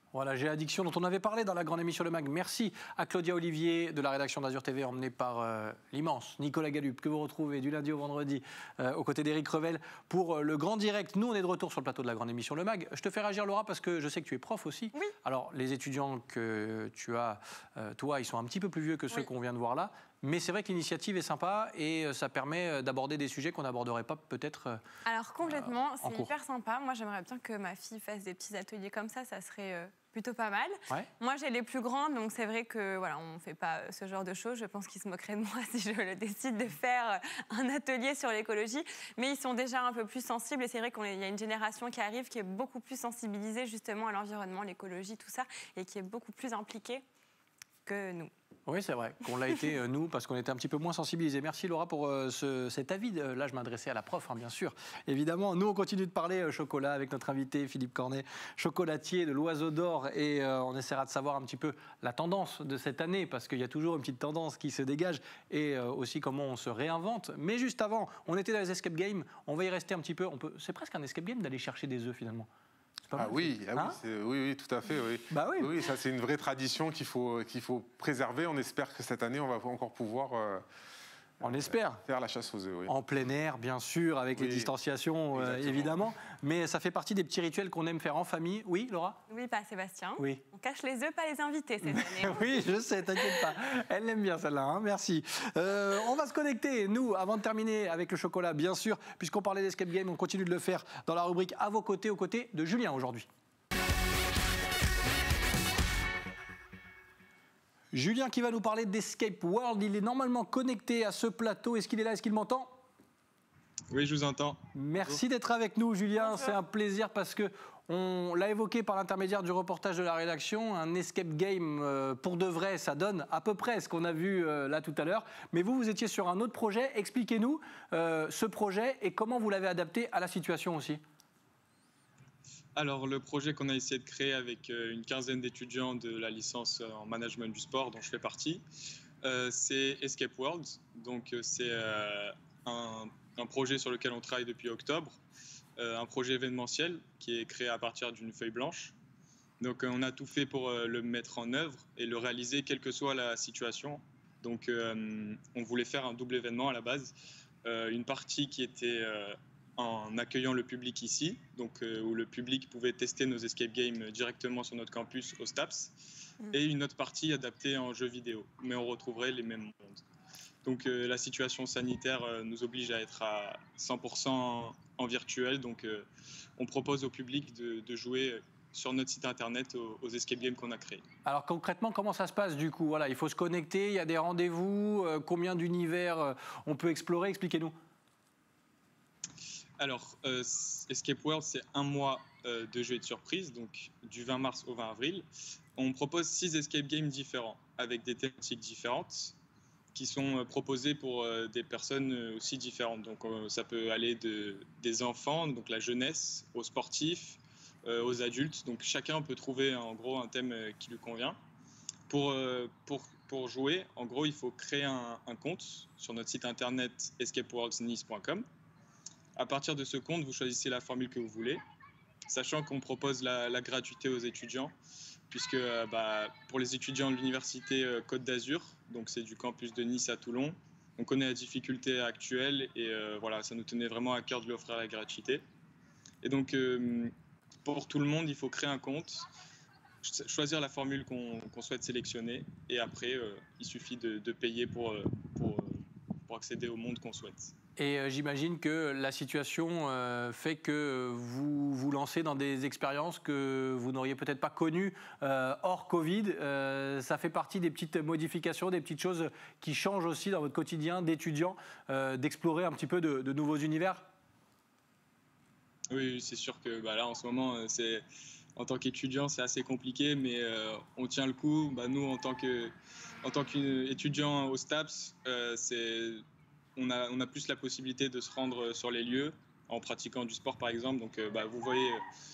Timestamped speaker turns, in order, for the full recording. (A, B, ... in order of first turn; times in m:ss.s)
0:00.1-0:24.8 A
0:25.0-0:47.0 B
0:25.5-0:26.3 A
0:47.8-0:48.3 B
0:48.6-1:12.5 A
1:13.1-1:14.0 A
1:13.2-1:20.6 C
1:15.3-1:15.7 A
1:21.4-1:22.9 C
1:21.4-1:22.0 A
1:22.9-1:29.2 A
1:24.3-1:24.7 C
1:25.3-1:25.9 C
1:29.3-1:33.4 B
1:30.2-1:30.4 A
1:31.8-1:43.3 A
1:47.9-1:52.8 A
1:53.9-1:55.2 D
1:54.7-2:11.0 A
1:56.2-1:56.5 B
2:12.8-2:18.6 D
2:19.2-2:25.2 D
2:25.8-2:28.9 D
2:29.6-2:37.1 D
2:37.6-2:46.0 D
2:46.5-2:50.0 D
2:50.6-2:56.1 D
2:56.6-3:01.0 D
3:01.2-3:07.7 A
3:09.8-3:15.2 D
3:15.8-3:19.4 D
3:19.9-3:31.4 D
3:32.1-3:38.4 D
3:39.4-3:41.6 D
3:42.3-3:44.7 D
3:45.3-3:55.4 D
3:56.2-3:57.1 D
3:57.6-3:59.2 D
4:00.0-4:07.5 D
4:07.8-4:24.1 A
4:25.9-4:28.0 D
4:28.6-4:36.2 D
4:36.8-4:42.0 D